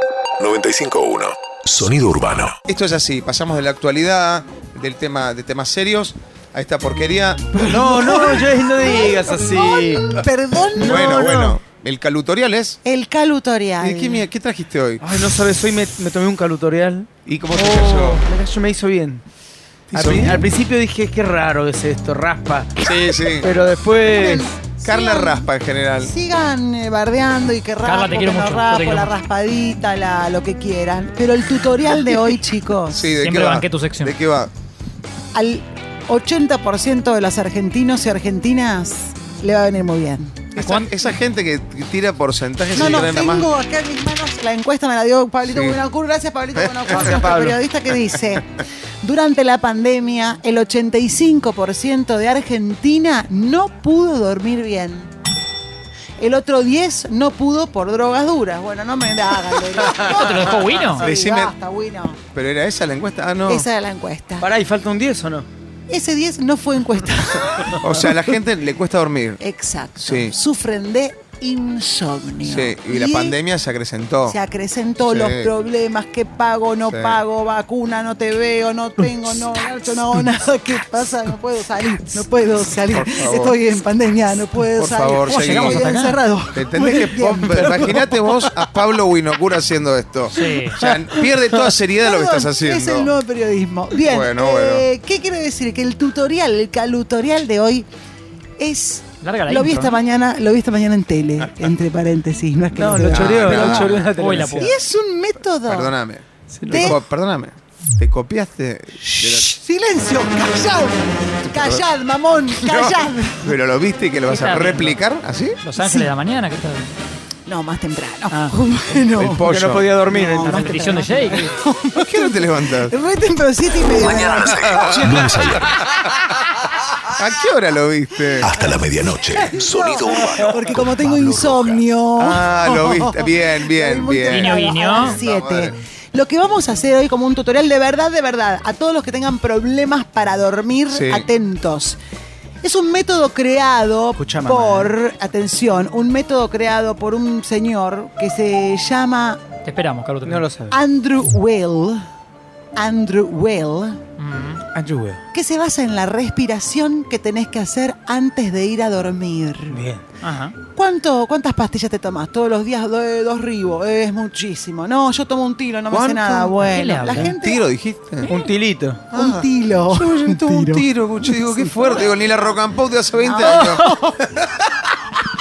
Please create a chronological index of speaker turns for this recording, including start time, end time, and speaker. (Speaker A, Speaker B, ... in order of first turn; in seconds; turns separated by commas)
Speaker A: 0.4-2.6, Speaker B: 2.6-7.7, Speaker C: 7.6-11.6, Speaker D: 7.7-10.1, Speaker B: 10.8-12.8, Speaker D: 10.8-11.3, Speaker C: 12.8-14.2, Speaker B: 13.8-15.0, Speaker D: 15.0-19.2, Speaker B: 17.2-18.2, Speaker B: 19.9-20.5, Speaker D: 19.9-24.5, Speaker B: 22.8-23.5, Speaker C: 24.0-25.5, Speaker B: 24.8-26.1, Speaker C: 26.0-33.0, Speaker E: 27.8-29.1, Speaker B: 32.9-34.5, Speaker E: 33.1-34.2, Speaker C: 35.3-40.4, Speaker B: 40.5-43.5, Speaker E: 40.5-40.9, Speaker C: 42.7-55.1, Speaker B: 45.4-45.8, Speaker B: 46.6-47.1, Speaker D: 46.9-47.5, Speaker C: 56.2-62.2, Speaker E: 60.0-61.0, Speaker B: 61.0-61.5, Speaker B: 62.3-63.7, Speaker C: 63.5-64.5, Speaker D: 64.4-65.5, Speaker C: 65.9-67.8, Speaker B: 67.6-69.4, Speaker C: 69.4-73.4, Speaker B: 70.0-70.3, Speaker B: 72.4-74.4, Speaker C: 74.3-88.1, Speaker B: 75.0-75.5, Speaker B: 76.9-77.2, Speaker B: 82.9-83.5, Speaker B: 84.7-85.9, Speaker E: 85.3-86.2, Speaker B: 86.5-93.1, Speaker E: 90.3-90.9, Speaker C: 92.0-97.9, Speaker B: 94.0-94.8, Speaker C: 98.6-105.9, Speaker E: 99.2-100.0, Speaker D: 102.7-104.7, Speaker B: 103.1-104.0, Speaker E: 104.2-104.7, Speaker B: 105.6-109.5, Speaker D: 106.5-106.9, Speaker C: 106.7-107.0, Speaker C: 109.0-113.5, Speaker B: 111.4-111.8, Speaker B: 112.5-115.6, Speaker E: 114.3-115.0, Speaker E: 115.6-116.9, Speaker C: 115.8-116.1, Speaker C: 117.5-119.4, Speaker B: 119.2-119.9, Speaker D: 119.2-121.3, Speaker C: 120.1-125.0, Speaker E: 120.4-121.5, Speaker B: 122.0-122.9, Speaker A: 124.0-125.8, Speaker B: 124.4-125.2, Speaker D: 124.9-125.2, Speaker B: 125.8-126.1, Speaker B: 127.1-128.6, Speaker A: 128.4-131.8, Speaker C: 128.6-142.0, Speaker B: 132.2-135.7, Speaker E: 134.3-135.2, Speaker B: 140.9-141.3, Speaker C: 142.6-149.4, Speaker D: 144.2-144.9, Speaker E: 149.6-150.5, Speaker D: 150.2-150.7, Speaker C: 150.7-152.1, Speaker C: 152.8-154.0, Speaker E: 154.2-154.6, Speaker D: 154.7-155.2, Speaker C: 155.3-159.8, Speaker D: 159.7-160.0, Speaker E: 160.2-160.6, Speaker C: 160.7-167.7, Speaker B: 165.9-166.6, Speaker E: 166.6-167.3, Speaker B: 167.2-168.3, Speaker D: 168.3-169.0, Speaker B: 169.1-174.5, Speaker C: 169.1-172.1, Speaker C: 173.2-174.2